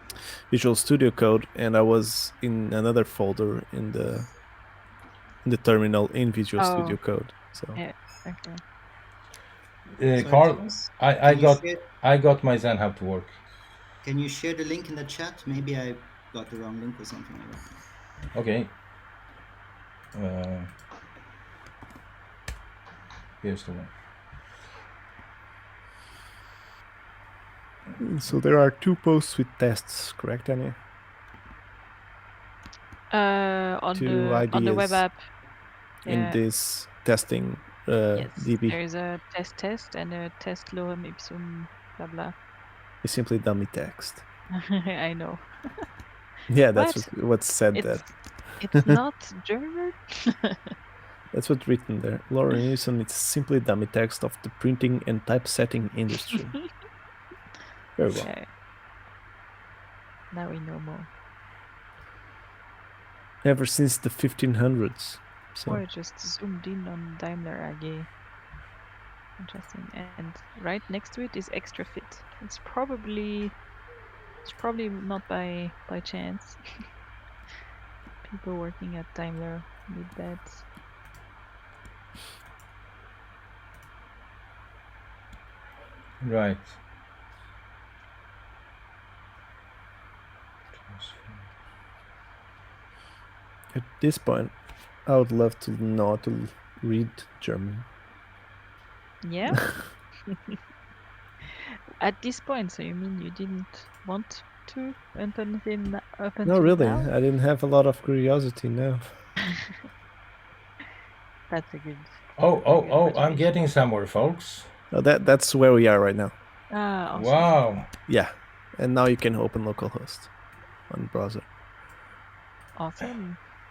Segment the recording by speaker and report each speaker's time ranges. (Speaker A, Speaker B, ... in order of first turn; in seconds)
Speaker A: 0.5-4.3, 5.4-7.8, 28.0-30.8, 33.9-35.0, 36.1-38.8, 43.0-44.2, 46.5-49.0, 51.3-56.6, 58.0-58.3, 63.4-65.8, 93.7-94.5, 95.1-97.9, 106.5-109.1, 114.9-116.3, 118.1-120.3, 120.9-121.5
Speaker B: 6.6-8.6, 33.1-35.2, 36.0-36.4, 38.1-42.4, 44.6-45.9, 46.7-50.5, 58.1-58.5, 60.3-61.1, 65.7-68.1, 69.4-73.6, 74.4-76.6, 78.2-80.7, 99.2-99.9, 102.0-107.1, 111.5-112.1, 112.6-113.5, 116.7-117.6, 122.8-123.4
Speaker C: 10.0-13.4, 18.3-18.8, 20.1-20.7, 23.4-23.9, 86.2-86.8, 90.8-91.5, 112.4-114.7, 117.2-117.9
Speaker D: 10.2-11.9, 14.0-17.7